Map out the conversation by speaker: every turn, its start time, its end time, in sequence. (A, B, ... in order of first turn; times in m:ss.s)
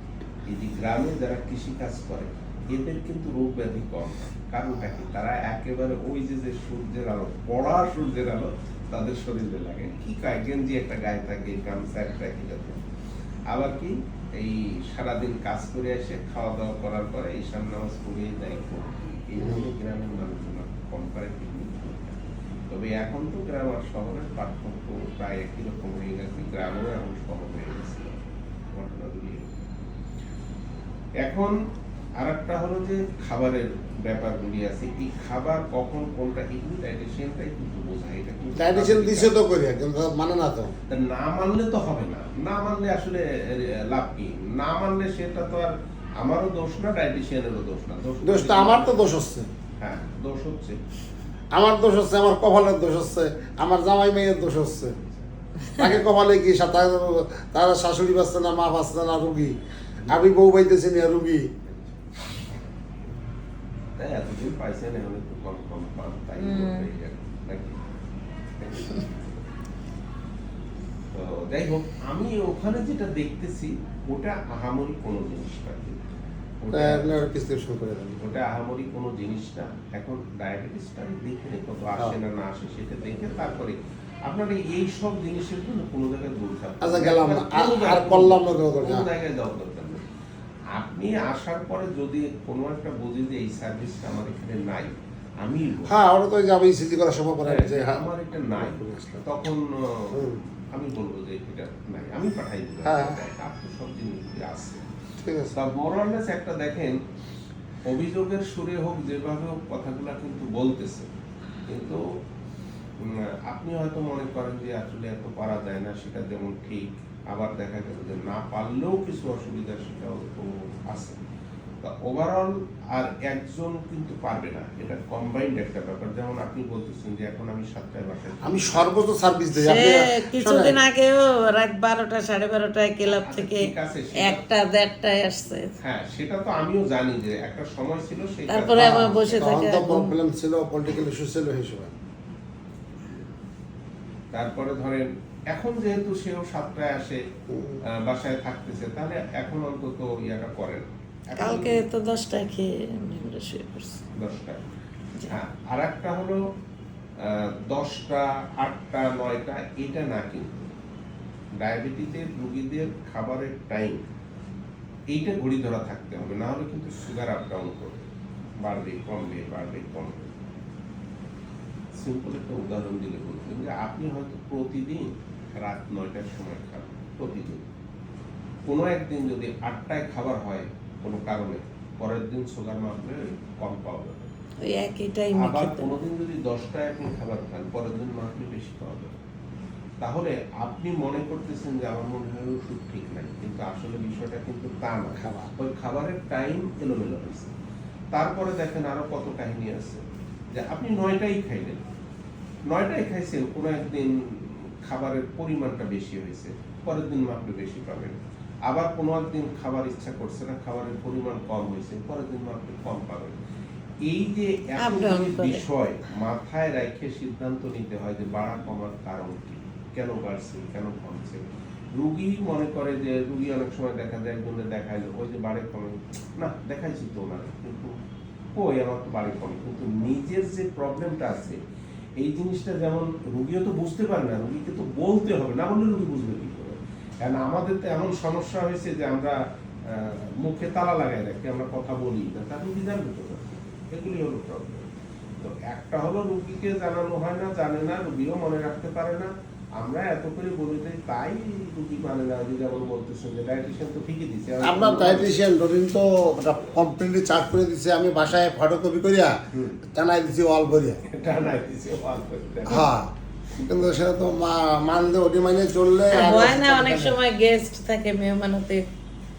0:00.5-0:12.8 A
0:13.5-0:28.2 A
0:19.4-0:19.7 B
0:28.8-0:29.6 A
0:31.2-0:31.6 A
0:32.2-0:39.4 A
0:38.6-0:40.8 B
0:40.9-0:49.1 A
0:48.2-0:49.5 B
0:49.8-0:50.8 A
0:51.5-0:55.0 B
0:54.9-0:56.0 A
0:55.7-1:01.5 B
1:00.0-1:00.4 A
1:01.6-1:02.0 A
1:04.0-1:07.9 A
1:06.4-1:06.9 C
1:08.6-1:09.4 A
1:11.1-1:16.1 A
1:16.6-1:17.2 A
1:16.7-1:18.2 B
1:18.2-1:30.0 A
1:26.8-1:29.1 B
1:30.7-1:36.0 A
1:35.9-1:39.4 B
1:37.4-1:44.9 A
1:40.1-1:40.4 B
1:42.8-1:43.2 B
1:45.2-1:45.6 B
1:45.5-1:47.0 A
1:47.8-1:51.1 A
1:51.7-1:52.0 A
1:53.0-2:01.2 A
2:01.8-2:09.0 A
2:08.4-2:10.8 B
2:09.6-2:15.8 C
2:13.0-2:14.4 A
2:15.8-2:19.5 A
2:18.5-2:20.2 C
2:18.7-2:22.0 B
2:24.3-2:27.2 A
2:27.5-2:27.8 B
2:27.8-2:31.8 A
2:31.4-2:34.0 C
2:34.2-2:34.7 A
2:35.3-2:36.4 A
2:37.2-2:40.7 A
2:41.6-2:44.0 A
2:45.1-2:48.1 A
2:48.6-2:50.4 A
2:52.0-2:57.7 A
2:58.7-3:04.3 A
3:04.6-3:06.0 C
3:05.3-3:09.1 A
3:10.0-3:17.5 A
3:15.2-3:15.5 B
3:18.1-3:21.8 A
3:22.7-3:33.4 A
3:34.0-3:41.4 A
3:34.8-3:35.6 C
3:42.0-3:48.0 A
3:48.6-3:51.6 A
3:52.2-3:59.4 A
3:59.9-4:04.9 A
4:05.4-4:15.4 A
4:14.6-4:19.4 B
4:19.5-4:19.8 A
4:19.9-4:21.0 B
4:21.1-4:23.0 A
4:22.7-4:27.2 B
4:26.1-4:28.8 C